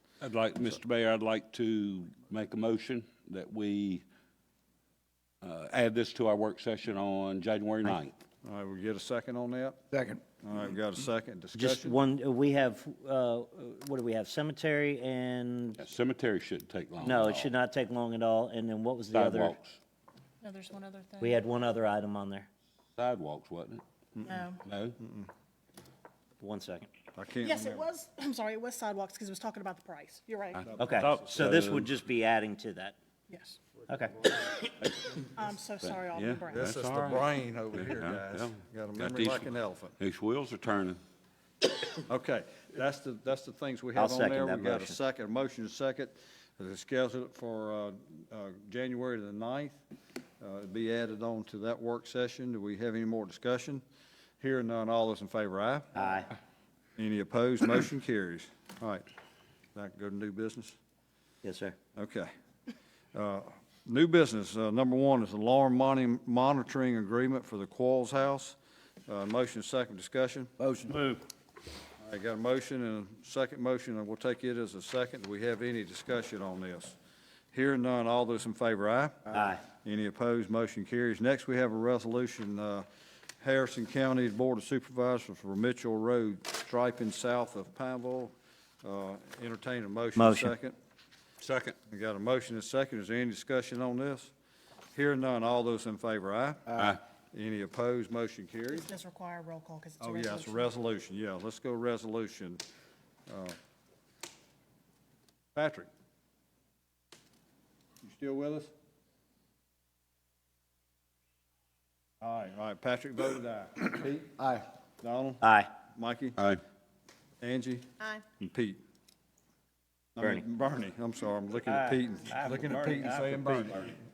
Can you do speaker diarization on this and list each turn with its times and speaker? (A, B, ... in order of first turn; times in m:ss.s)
0:00.2-0:04.0 A
0:05.4-0:08.1 A
0:08.4-0:12.0 B
0:11.5-0:15.8 C
0:15.8-0:17.5 A
0:17.0-0:19.6 C
0:19.1-0:19.8 A
0:20.4-0:21.4 D
0:21.2-0:22.5 C
0:23.0-0:23.8 A
0:24.5-0:25.0 A
0:25.0-0:25.3 B
0:26.4-0:26.9 C
0:27.1-0:27.9 B
0:27.4-0:30.6 D
0:30.5-0:31.9 A
0:30.7-0:31.1 B
0:30.8-0:33.0 C
0:33.3-0:33.6 D
0:33.9-0:34.5 C
0:35.2-0:36.7 D
0:35.8-0:39.4 A
0:36.4-0:40.0 B
0:40.0-0:41.0 A
0:42.0-0:49.8 B
0:44.0-0:45.0 C
0:50.4-0:53.8 B
0:54.4-0:55.9 B
0:55.9-0:56.3 C
0:57.0-0:59.0 B
0:59.7-1:00.8 B
1:01.4-1:01.8 C
1:02.0-1:02.3 B
1:03.1-1:10.9 B
1:12.0-1:17.0 B
1:17.5-1:22.8 B
1:19.3-1:19.6 C
1:23.4-1:30.7 B
1:30.2-1:30.5 C
1:31.4-1:31.8 A
1:31.9-1:34.3 B
1:34.9-1:38.9 B
1:36.7-1:37.0 A
1:38.7-1:40.7 D
1:40.0-1:42.6 B
1:43.3-1:43.6 B
1:45.5-1:45.9 B
1:48.0-1:48.7 B
1:52.2-1:56.4 B
1:55.4-1:55.7 C
1:57.4-1:58.8 B
2:00.2-2:03.9 B
2:01.7-2:03.7 C